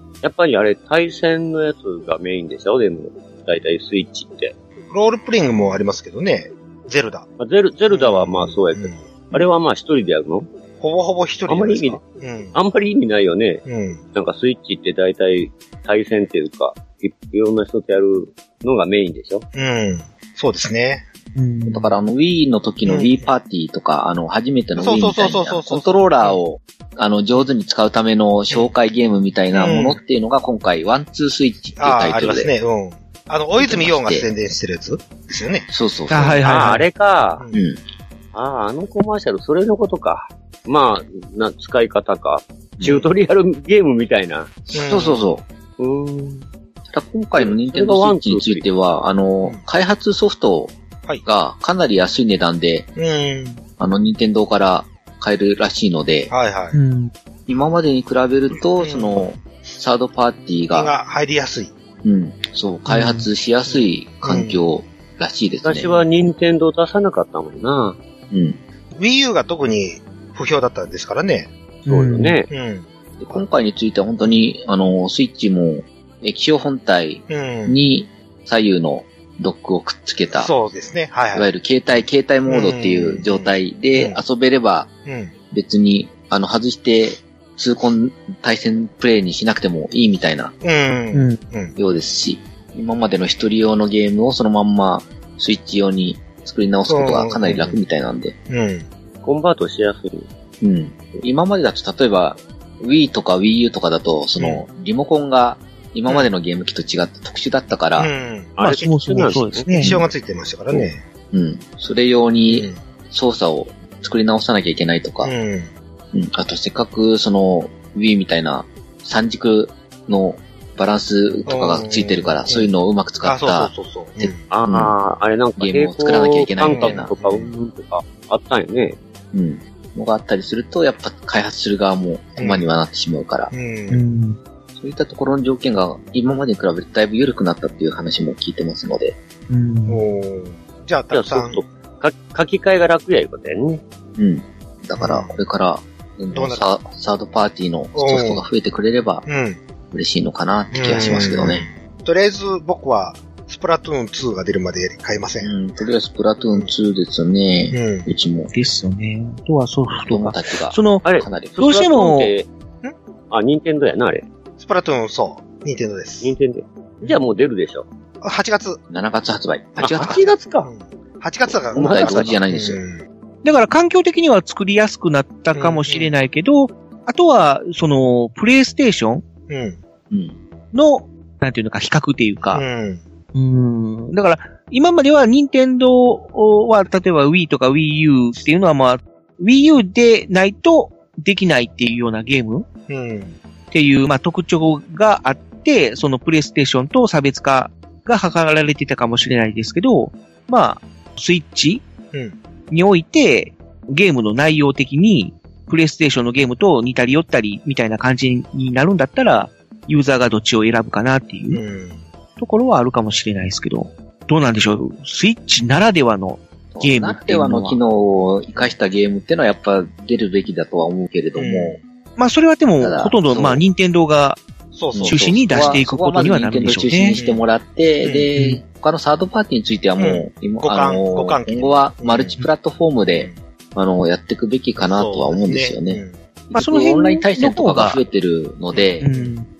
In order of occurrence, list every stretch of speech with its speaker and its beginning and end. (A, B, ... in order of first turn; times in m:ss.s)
0:00.2-0:04.5 A
0:04.9-0:07.2 B
0:07.4-0:10.5 A
0:07.9-0:09.4 B
0:10.8-0:12.5 B
0:11.5-0:12.0 A
0:12.5-0:19.4 A
0:13.6-0:14.0 B
0:19.5-0:21.0 B
0:21.3-0:21.9 C
0:21.7-0:32.5 D
0:22.8-0:23.2 B
0:24.8-0:26.4 B
0:29.5-0:30.0 B
0:31.8-0:35.7 B
0:33.6-0:34.3 D
0:35.7-0:36.4 D
0:36.1-0:36.8 C
0:36.4-0:37.4 A
0:37.5-0:37.8 D
0:38.3-0:44.6 A
0:42.8-0:43.1 D
0:44.7-0:45.3 B
0:44.7-0:45.4 D
0:45.8-0:46.5 A
0:46.9-0:52.9 D
0:47.4-0:48.7 A
0:53.0-0:53.6 B
0:53.8-0:56.3 D
0:56.3-0:56.8 B
0:56.7-0:57.1 C
0:57.5-1:00.9 D
0:58.8-0:59.2 B
1:00.7-1:01.7 B
1:02.0-1:06.0 D
1:02.9-1:03.3 C
1:03.7-1:04.6 B
1:05.6-1:08.0 A
1:08.3-1:08.6 D
1:09.0-1:11.5 B
1:11.8-1:12.4 C
1:11.9-1:12.5 A
1:12.5-1:13.5 B
1:13.2-1:20.5 D
1:17.3-1:17.8 B
1:20.3-1:21.5 B
1:21.3-1:24.9 D
1:22.5-1:24.2 B
1:25.0-1:25.3 B
1:25.5-1:30.5 D
1:30.6-1:31.7 B
1:31.1-1:31.4 C
1:31.8-1:38.4 D
1:36.9-1:37.8 B
1:38.5-1:38.9 B
1:39.2-1:40.3 A
1:40.6-1:48.1 D
1:44.4-1:44.6 B
1:48.0-1:51.0 B
1:48.6-1:49.8 A
1:48.6-1:50.0 C
1:49.8-1:50.0 D
1:51.3-1:55.3 D
1:52.5-1:52.8 B
1:55.2-1:55.7 B
1:56.1-2:04.9 D
2:01.5-2:02.7 B
2:03.2-2:04.4 B
2:04.5-2:09.0 A
2:05.6-2:07.1 D
2:06.6-2:07.5 B
2:09.3-2:13.5 D
2:12.4-2:12.7 B
2:13.5-2:14.0 B
2:13.9-2:14.4 C
2:14.8-2:19.2 D
2:19.5-2:20.0 C
2:19.9-2:21.6 B
2:21.1-2:23.8 A
2:24.2-2:29.2 D
2:25.0-2:25.4 B
2:26.3-2:26.7 B
2:27.9-2:28.4 B
2:29.2-2:29.6 B
2:29.9-2:31.6 D
2:30.7-2:35.5 B
2:35.4-2:38.5 D
2:37.7-2:38.1 B
2:38.5-2:41.0 C
2:40.0-2:41.6 D
2:41.0-2:42.5 A
2:41.6-2:42.3 C
2:43.3-2:44.2 A
2:44.6-2:46.3 B
2:46.2-2:47.8 A
2:48.2-2:48.8 B
2:48.9-2:50.2 D
2:49.8-2:50.7 A
2:49.8-2:53.0 B
2:51.5-2:52.4 A
2:51.7-2:52.8 D
2:53.4-2:59.2 C
2:55.5-2:56.2 B
2:59.5-2:59.8 B
3:00.1-3:00.4 D
3:00.7-3:02.6 C
3:02.5-3:03.0 B
3:03.3-3:12.6 C
3:12.9-3:13.4 B
3:13.7-3:21.8 C
3:22.1-3:22.4 B
3:22.7-3:31.6 C
3:31.5-3:32.0 B
3:32.4-3:37.8 C
3:36.7-3:41.8 D
3:41.3-3:41.8 B
3:42.2-3:44.4 C
3:42.8-3:43.6 D
3:44.7-3:45.7 B
3:44.9-3:59.1 D
3:45.0-3:47.2 C
3:47.2-3:47.4 B
3:48.0-3:48.3 B
3:48.4-3:48.6 C
3:50.0-3:52.4 B
3:53.0-3:53.4 B
3:54.8-3:56.2 B
3:56.5-3:58.0 C
3:58.7-3:59.3 B
3:59.0-3:59.5 C